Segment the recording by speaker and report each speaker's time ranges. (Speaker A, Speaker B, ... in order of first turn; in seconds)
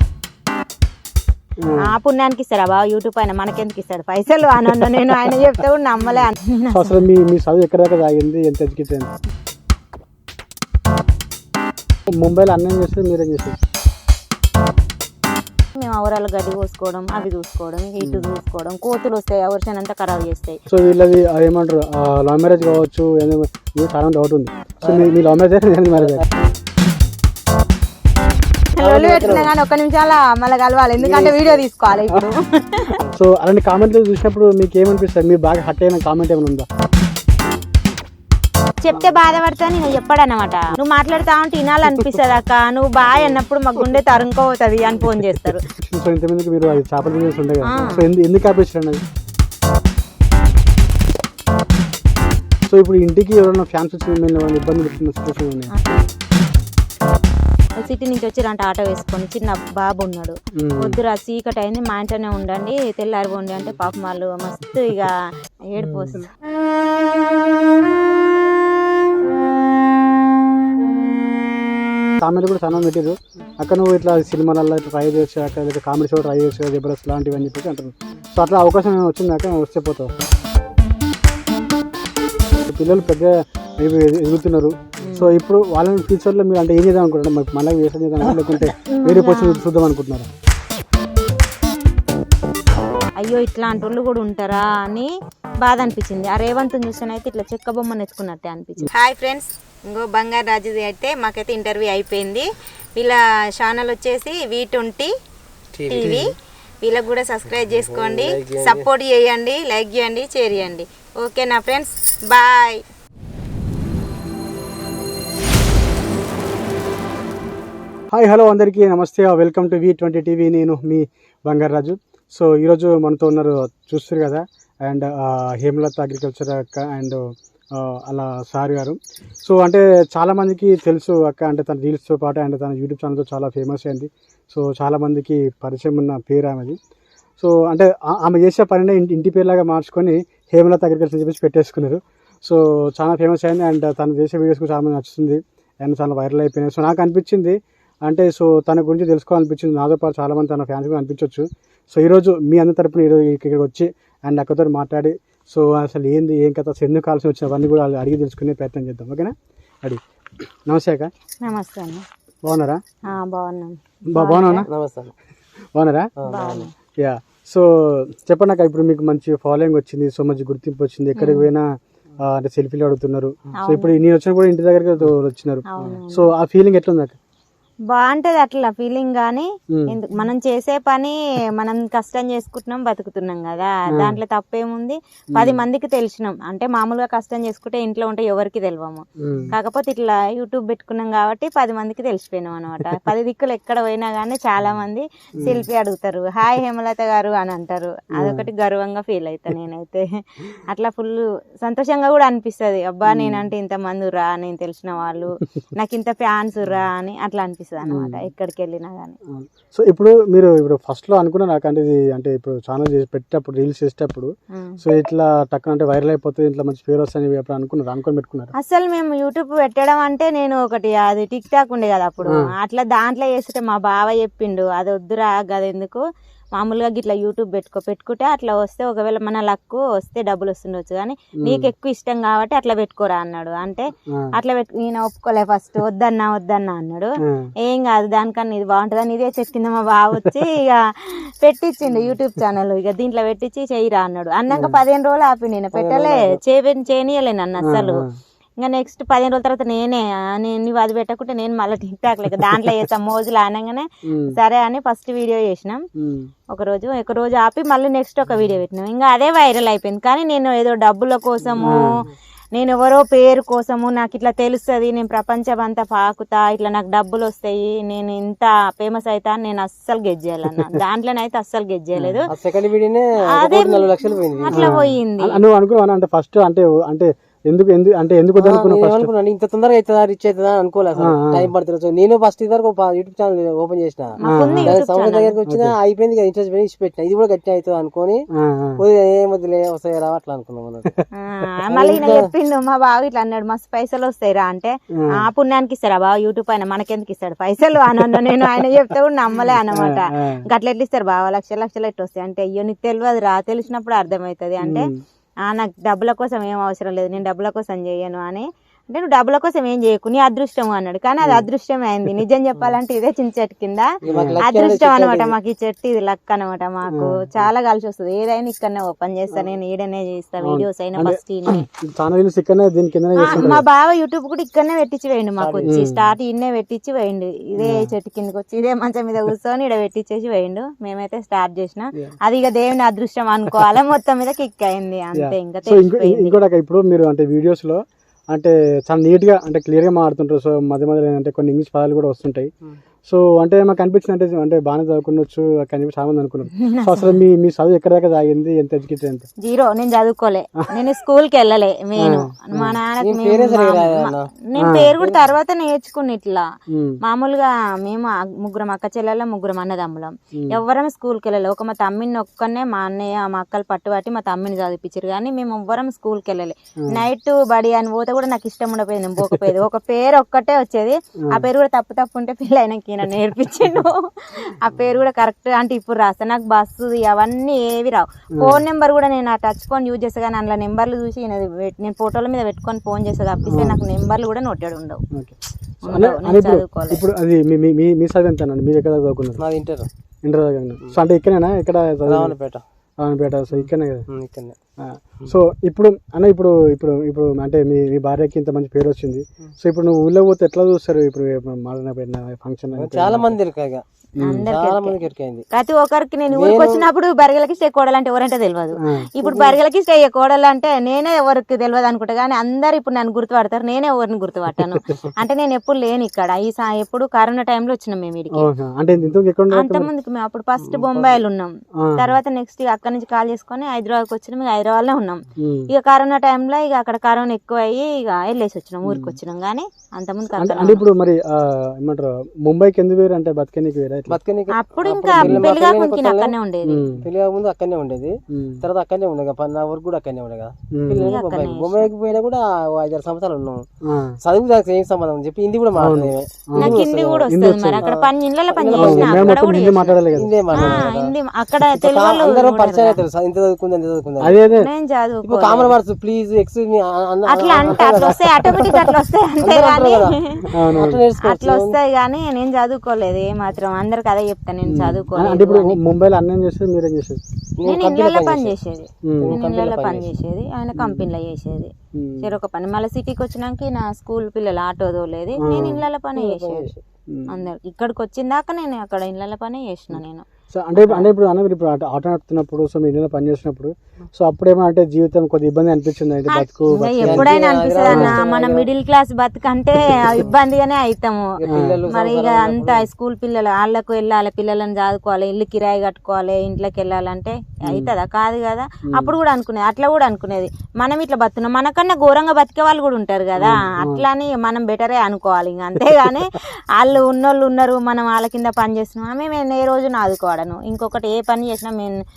Speaker A: 1.6-1.9, 6.7-9.1, 12.1-13.6, 18.0-18.3, 20.7-26.2, 33.1-36.7, 45.7-49.0, 52.7-55.7, 60.5-61.0, 65.8-66.2, 72.2-80.1, 82.6-90.3, 118.1-136.8, 137.4-161.1, 162.4-162.8, 164.1-164.7, 165.7-166.1, 167.0-171.7, 172.2-177.2, 179.7-179.9, 183.9-184.2, 185.3-185.6, 189.2-189.5, 198.2-198.5, 203.1-203.5, 207.9-208.2, 209.3-218.5, 231.4-231.7, 234.1-234.3, 237.2-237.5, 244.5-244.8, 247.6-248.1, 252.4-252.7, 254.1-254.4, 256.0-256.3, 261.6-262.0, 270.5-270.8, 272.0-272.2, 274.5-279.1, 281.0-281.5, 284.3-284.8, 285.4-285.7, 288.3-288.8, 294.9-295.2, 299.5-300.4, 304.6-305.0, 311.2-311.5, 314.1-314.4, 316.9-317.3, 320.4-323.6, 325.6-326.1, 327.6-327.9, 335.1-337.8, 338.3-342.5, 343.1-349.3, 352.0-352.8, 354.6-354.9, 356.7-357.0, 360.3-360.6, 371.2-371.5, 378.4-378.6, 383.5-383.8, 385.1-389.4, 390.2-392.3, 393.0-394.1, 394.8-403.4, 404.2-404.4, 408.8-409.1, 414.7-415.0, 418.3-419.9, 421.8-422.2, 425.4-425.7, 428.8-429.2, 430.4-434.2, 435.2-435.5, 436.6-437.1, 438.3-438.6, 440.7-441.1, 443.8-444.2, 445.8-447.9, 448.7-450.8, 454.2-454.7, 460.5-461.0, 464.7-467.2, 469.0-469.4, 470.8-471.1, 471.9-472.4, 475.4-475.8, 477.1-477.3, 480.5-487.3, 487.9-488.1, 491.5-491.8, 497.7-497.9, 498.9-499.1, 503.4-504.0
Speaker B: 1.8-7.0, 15.7-20.6, 28.7-33.0, 38.8-45.6, 47.6-48.0, 57.8-65.2, 65.7-66.3, 85.0-85.3, 88.7-89.6, 93.2-105.1, 105.9-112.8, 161.4-162.0, 163.1-164.7, 166.3-166.7, 171.2-171.5, 173.6-173.9, 175.7-176.3, 177.9-209.2, 214.5-214.8, 218.5-226.0, 226.5-248.1, 248.6-255.8, 256.5-261.9, 262.5-272.3, 273.3-275.4, 284.2-285.3, 291.1-304.9, 305.4-321.6, 323.1-336.3, 346.6-347.1, 349.4-356.4, 357.0-385.0, 385.8-387.0, 404.2-405.0, 405.5-418.5, 419.5-430.8, 434.5-436.9, 441.0-441.9, 446.6-450.0, 450.5-453.0, 454.5-455.7, 457.3-460.5, 461.2-465.8, 467.6-476.7, 477.3-481.1, 486.3-512.0
Speaker C: 24.8-25.1, 25.9-26.3, 28.8-29.5, 31.0-31.6, 105.7-106.3, 107.8-108.9, 164.7-165.1, 166.2-166.7, 245.7-246.4, 272.3-274.7, 278.4-288.2, 288.8-290.9, 291.7-292.3, 314.0-315.3, 325.4-325.8, 353.0-354.3, 389.4-389.9, 392.1-392.6, 393.6-394.5, 402.8-403.8, 404.4-405.4, 406.3-406.9, 409.2-409.6, 420.6-421.2, 434.1-436.3, 437.0-443.6, 444.2-449.3, 450.1-451.1, 451.7-454.4, 455.2-461.8, 467.6-468.6, 469.1-470.1, 476.1-476.8, 487.0-488.6, 489.9-490.3, 491.4-492.9